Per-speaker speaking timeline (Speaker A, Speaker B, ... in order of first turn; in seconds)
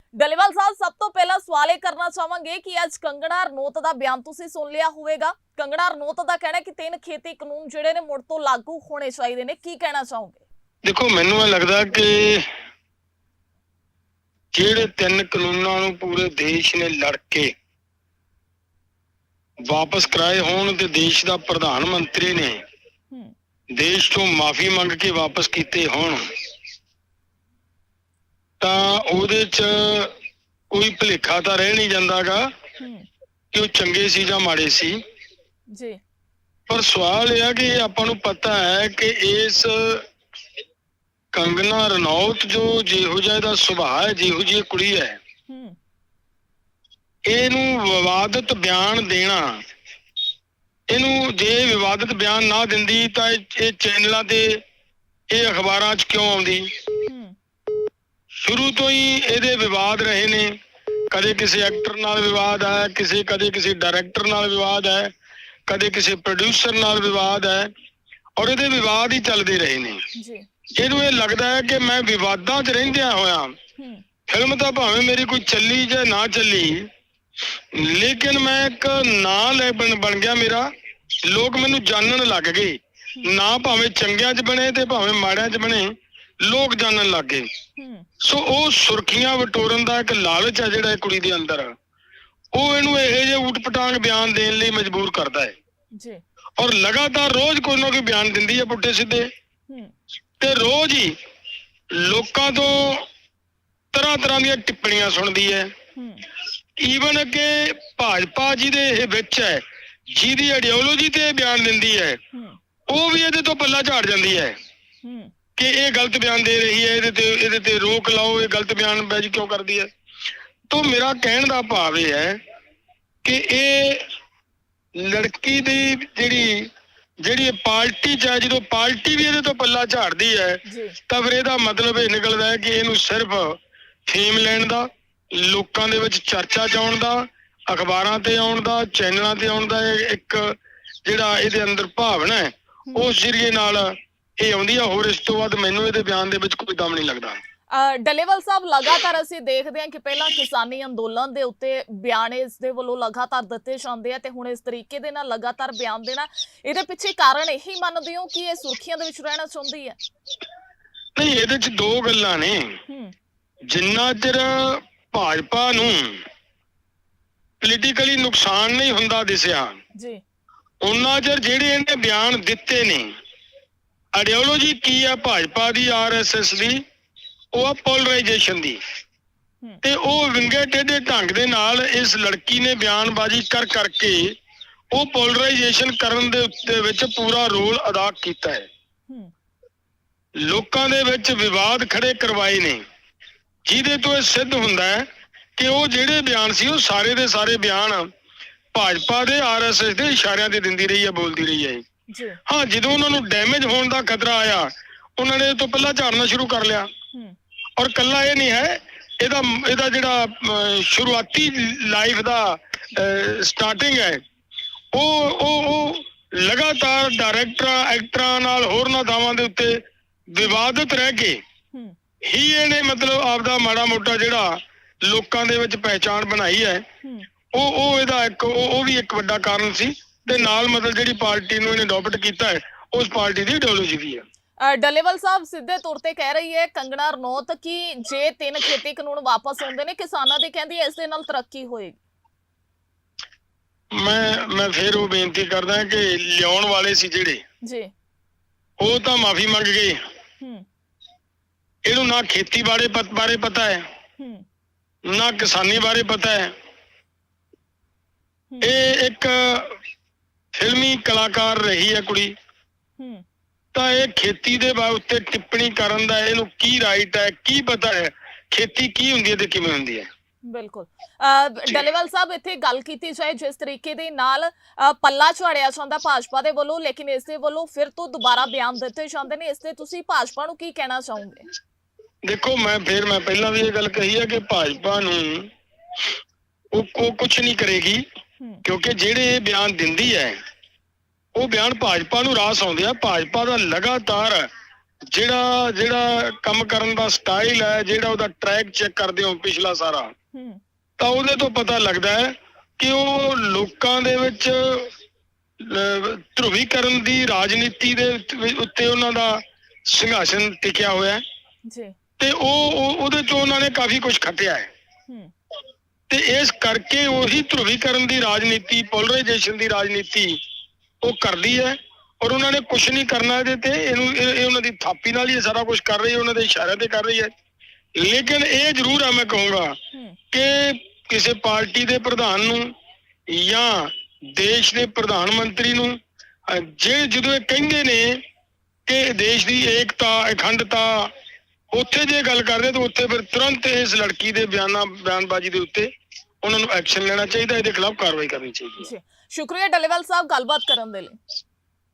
Speaker A: 0.2-10.4, 32.8-33.1, 35.7-36.0, 45.5-45.8, 57.1-57.4, 70.2-70.4, 87.8-88.1, 106.0-106.2, 112.3-112.6, 115.0-115.3, 130.7-131.0, 147.7-160.0, 162.9-163.1, 170.0-170.2, 202.1-202.4, 230.3-230.5, 234.6-242.0, 247.6-247.9, 250.4-250.7, 254.2-254.4, 263.0-263.2, 270.5-281.5, 300.3-300.6, 311.7-311.9, 329.9-330.2, 348.8-351.1
Speaker B: 10.8-12.5, 14.5-17.5, 19.7-22.6, 23.7-26.2, 28.6-30.1, 30.7-32.5, 33.5-35.0, 36.7-40.0, 41.3-45.2, 47.3-49.6, 50.9-54.6, 55.3-56.7, 58.3-60.5, 61.1-65.1, 65.7-67.7, 68.4-70.0, 70.8-73.5, 74.3-76.9, 77.7-80.7, 81.3-85.9, 86.4-87.5, 88.2-91.7, 92.5-95.5, 96.6-99.3, 100.4-101.2, 101.9-103.0, 103.9-105.7, 106.8-112.2, 112.9-114.5, 115.6-119.9, 120.7-122.4, 123.2-124.0, 125.0-126.7, 127.2-140.6, 141.1-147.4, 161.2-162.8, 163.7-166.2, 167.6-169.8, 170.8-173.1, 174.2-176.8, 177.5-178.8, 179.8-184.4, 184.9-188.7, 190.4-192.8, 193.7-195.1, 195.6-198.1, 198.7-201.8, 202.5-206.9, 207.8-214.2, 214.9-221.4, 222.2-226.8, 227.5-234.2, 243.9-247.4, 248.8-250.0, 251.9-253.9, 255.1-256.5, 258.6-259.8, 260.6-262.3, 263.7-270.1, 282.3-285.5, 286.7-288.0, 288.6-290.4, 291.4-294.5, 295.1-300.1, 301.0-304.9, 305.6-311.2, 312.2-314.7, 316.1-320.4, 321.0-327.3, 328.0-329.8, 330.3-332.7, 333.3-336.0, 336.5-338.2, 338.9-341.1, 341.7-345.9, 346.4-348.9